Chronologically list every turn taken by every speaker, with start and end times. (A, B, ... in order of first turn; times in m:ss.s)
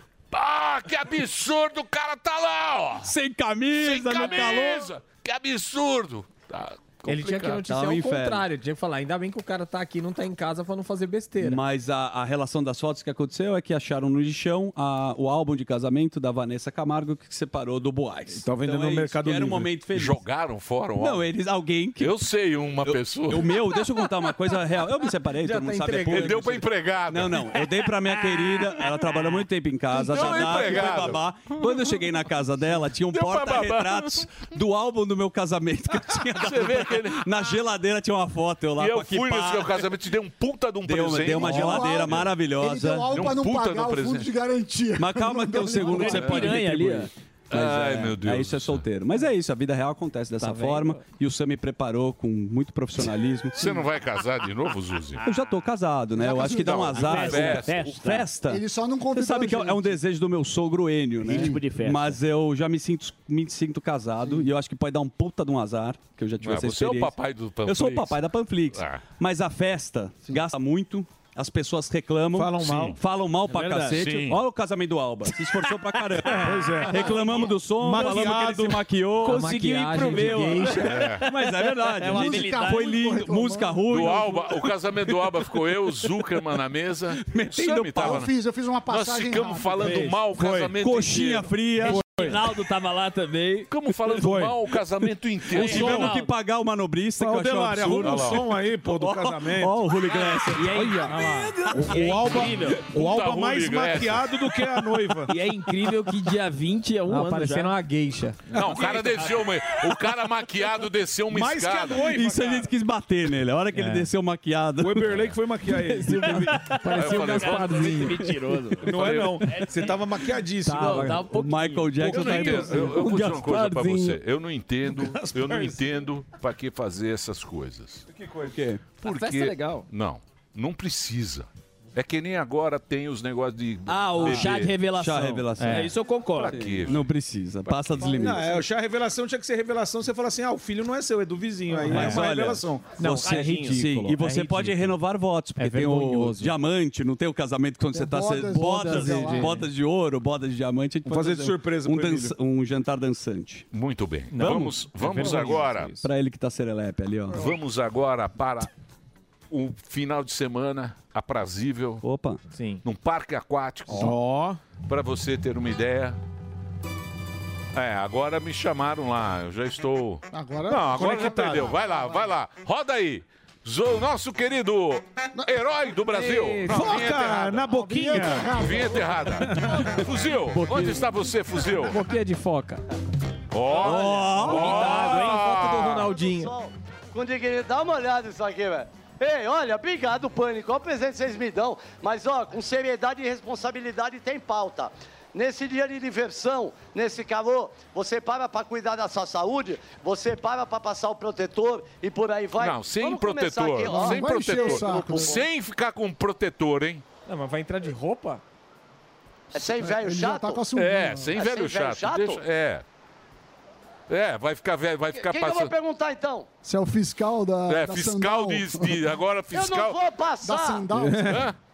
0:00.3-0:03.1 A
0:03.0-0:04.9 B
0:03.8-0:07.6 A
0:07.1-0:11.6 C
0:07.6-0:08.5 B
0:11.4-0:20.2 B
0:18.3-0:19.7 D
0:19.9-0:21.3 A
0:21.0-0:22.2 B
0:22.0-0:23.6 A
0:22.8-0:39.8 B
0:25.4-0:26.4 C
0:26.0-0:27.6 A
0:29.9-0:31.2 A
0:33.1-0:34.3 A
0:36.3-0:37.4 A
0:38.8-0:42.3 A
0:40.8-0:43.2 B
0:41.4-0:46.5 E
0:43.1-0:44.4 A
0:45.0-0:53.8 B
0:45.8-0:47.1 F
0:47.5-0:48.8 A
0:50.4-0:51.0 C
0:53.6-0:55.2 A
0:55.2-1:07.1 B
0:56.2-0:57.3 E
0:56.4-0:58.0 A
0:57.1-0:58.0 F
0:58.4-1:00.0 E
1:01.2-1:01.6 E
1:01.3-1:02.1 F
1:06.4-1:08.2 A
1:07.6-1:24.4 B
1:08.7-1:09.0 A
1:12.4-1:13.0 D
1:12.6-1:13.0 A
1:13.5-1:14.0 F
1:13.9-1:14.4 A
1:16.4-1:18.8 D
1:17.0-1:17.3 F
1:19.2-1:23.0 F
1:19.2-1:21.0 C
1:20.8-1:21.2 A
1:22.0-1:24.3 E
1:23.9-1:28.3 A
1:27.3-1:28.3 B
1:28.0-1:30.0 E
1:28.9-1:31.5 A
1:29.9-1:32.4 B
1:31.8-1:33.7 F
1:33.7-1:36.2 A
1:34.2-1:34.5 D
1:35.5-1:42.5 B
1:35.6-1:36.3 F
1:35.6-1:36.0 D
1:37.2-1:39.8 D
1:38.0-1:38.4 A
1:40.1-1:42.8 F
1:41.1-1:41.4 C
1:41.7-1:45.3 D
1:42.9-1:44.4 A
1:45.3-1:47.8 F
1:47.1-1:48.4 C
1:48.5-1:49.3 D
1:48.5-1:52.1 A
1:51.3-1:52.6 D
1:51.9-1:55.3 B
1:54.8-1:56.4 D
1:56.1-1:56.7 B
1:56.1-1:59.9 F
1:56.7-1:58.2 C
1:56.9-1:57.9 A
1:58.8-2:01.2 D
1:58.9-1:59.3 A
2:00.6-2:03.7 F
2:00.7-2:03.5 B
2:02.0-2:08.0 A
2:02.0-2:02.6 D
2:04.9-2:05.8 D
2:08.1-2:08.6 D
2:08.5-2:08.8 B
2:09.0-2:14.7 A
2:09.0-2:09.9 F
2:13.9-2:16.6 F
2:14.2-2:18.6 B
2:15.6-2:15.9 C
2:16.4-2:17.0 A
2:18.0-2:23.0 D
2:21.8-2:33.7 B
2:21.9-2:22.2 C
2:23.0-2:24.3 F
2:23.0-2:24.8 C
2:25.6-2:26.5 C
2:27.9-2:29.6 E
2:28.7-2:29.7 C
2:31.0-2:32.3 D
2:33.7-2:35.9 A
2:34.3-2:36.0 C
2:34.3-2:37.5 B
2:37.3-2:38.7 A
2:39.5-2:42.0 A
2:42.0-2:42.4 B
2:42.6-2:42.8 C
2:42.8-2:44.2 A
2:43.9-2:44.6 D
2:44.9-2:46.2 A
2:47.7-2:57.7 A
2:50.3-2:52.3 E
2:51.0-2:51.7 D
2:56.2-2:56.7 C
2:56.7-2:58.5 D
2:57.8-2:59.3 E
2:58.4-3:02.0 A
2:59.5-2:59.8 D
3:00.5-3:01.2 C
3:01.8-3:02.8 C
3:03.5-3:06.1 A
3:03.8-3:05.1 B
3:04.3-3:06.5 C
3:05.0-3:25.4 G
3:22.6-3:27.0 A
3:23.8-3:25.4 E
3:27.3-3:28.4 C
3:29.5-3:30.6 G
3:29.6-3:31.4 E
3:30.7-3:32.8 A
3:31.3-3:32.4 G
3:34.1-3:35.7 A
3:35.2-3:36.5 G
3:36.6-3:39.0 E
3:37.7-3:40.0 A
3:39.5-3:40.9 G
3:40.4-3:41.4 E
3:40.9-3:41.4 D
3:41.2-3:41.6 A